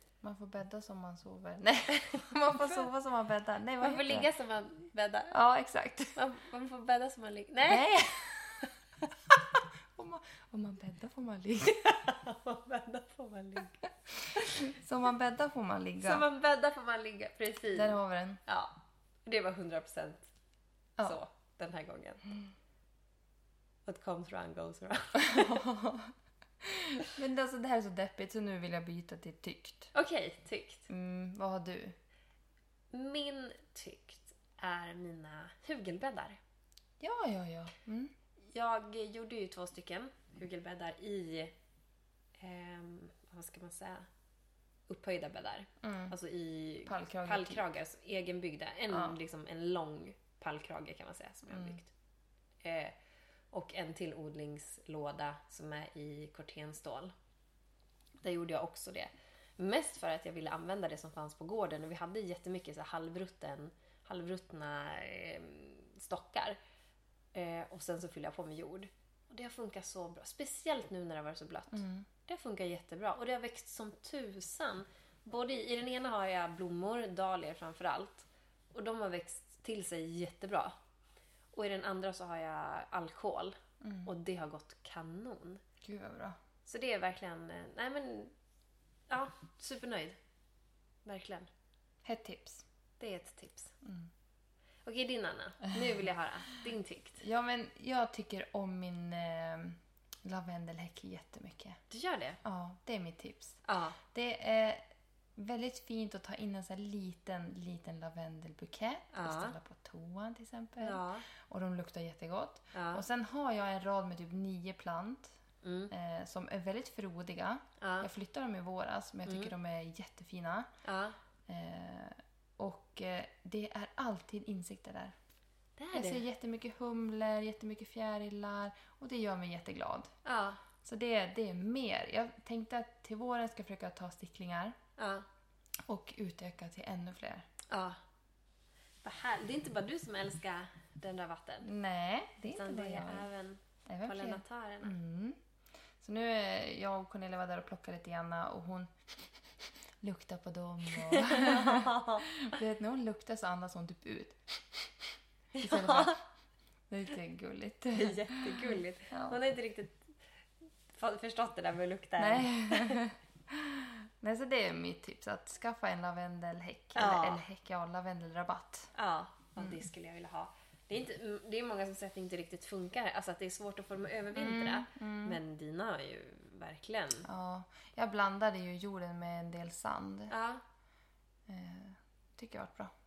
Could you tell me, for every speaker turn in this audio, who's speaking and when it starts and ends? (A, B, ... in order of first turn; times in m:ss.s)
0:00.2-0:04.3 A
0:02.1-0:02.8 B
0:03.8-0:05.4 B
0:05.3-0:06.2 A
0:06.1-0:08.7 B
0:07.7-0:08.7 A
0:09.3-0:11.9 A
0:11.8-0:13.8 B
0:14.2-0:16.2 A
0:16.0-0:18.7 B
0:17.7-0:18.4 A
0:19.2-0:20.3 B
0:21.0-0:22.3 B
0:23.8-0:25.6 B
0:25.2-0:29.9 A
0:29.9-0:30.9 B
0:30.9-0:32.0 A
0:32.9-0:36.4 B
0:37.0-0:38.1 A
0:38.5-0:41.5 B
0:42.4-0:44.1 B
0:44.9-0:51.9 B
0:45.8-0:46.1 A
0:46.8-0:47.7 A
0:48.9-0:49.2 A
0:51.5-0:51.8 A
0:52.6-0:53.0 B
0:53.5-0:57.1 B
0:58.2-1:06.6 B
1:07.3-1:20.8 B
1:11.7-1:12.1 A
1:21.5-1:25.6 B
1:23.8-1:24.1 A
1:25.8-1:26.4 A
1:26.6-1:28.3 B
1:29.1-1:30.2 B
1:31.0-1:31.5 B
1:32.0-1:32.6 A
1:33.0-1:33.7 B
1:33.8-1:34.1 A
1:34.8-1:37.2 B
1:37.2-1:41.8 A
1:41.9-1:42.4 B
1:42.4-1:44.8 A
1:43.6-1:44.0 B
1:45.4-1:55.4 A
1:49.1-1:49.5 B
1:50.8-1:51.2 B
1:52.7-1:53.0 B
1:55.6-1:55.9 B
1:55.9-2:00.7 A
1:57.8-1:58.1 B
1:59.2-1:59.5 B
2:00.8-2:01.2 B
2:01.5-2:05.1 A
2:05.8-2:06.2 B
2:05.9-2:10.1 A
2:10.2-2:10.6 B
2:10.8-2:14.8 A
2:15.0-2:15.2 B
2:15.9-2:17.5 A
2:17.7-2:18.0 B
2:19.0-2:21.7 B
2:21.6-2:23.3 A
2:22.5-2:25.0 B
2:23.9-2:25.4 A
2:26.0-2:28.9 A
2:30.0-2:36.2 A
2:30.9-2:32.3 B
2:35.6-2:36.2 B
2:36.9-2:39.4 A
2:37.9-2:40.2 B
2:40.9-2:43.0 B
2:42.2-2:48.9 A
2:46.9-2:47.4 B
2:48.9-2:57.3 B
2:54.3-2:55.4 A
2:57.2-3:00.3 A
3:00.3-3:00.6 B
3:01.5-3:02.9 A